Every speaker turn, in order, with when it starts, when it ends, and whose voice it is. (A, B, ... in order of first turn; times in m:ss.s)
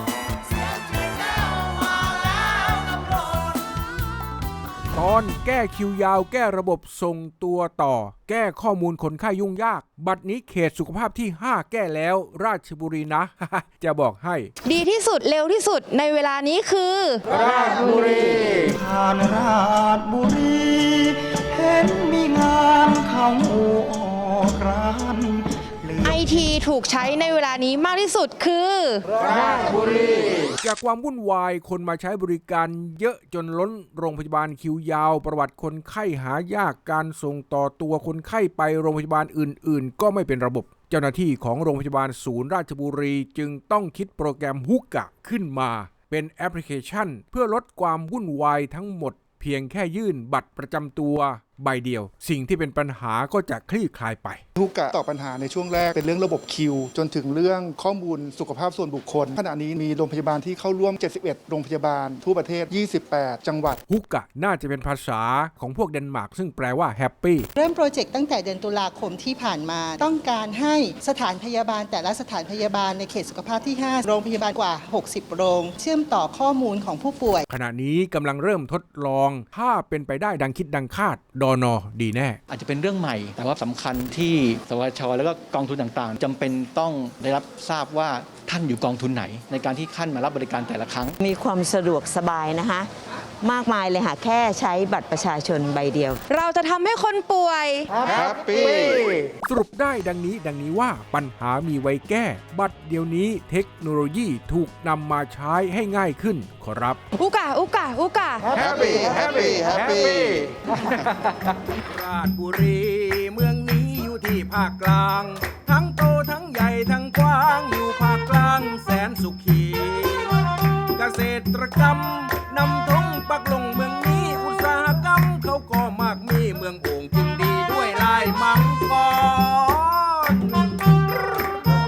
0:04.9-0:14.5 A
0:14.6-0:18.5 B
0:18.6-0:26.4 C
0:26.0-0:29.8 B
0:30.6-0:54.4 A
0:54.6-1:03.8 D
1:03.9-1:07.5 A
1:07.6-1:17.5 E
1:17.5-1:22.4 A
1:22.5-1:31.2 F
1:31.2-1:32.9 G
1:33.4-1:36.2 G
1:36.3-1:39.0 B
1:39.4-1:47.0 A
1:47.1-1:48.7 B
1:49.0-1:50.3 A
1:51.7-2:00.4 A
2:01.0-2:11.0 A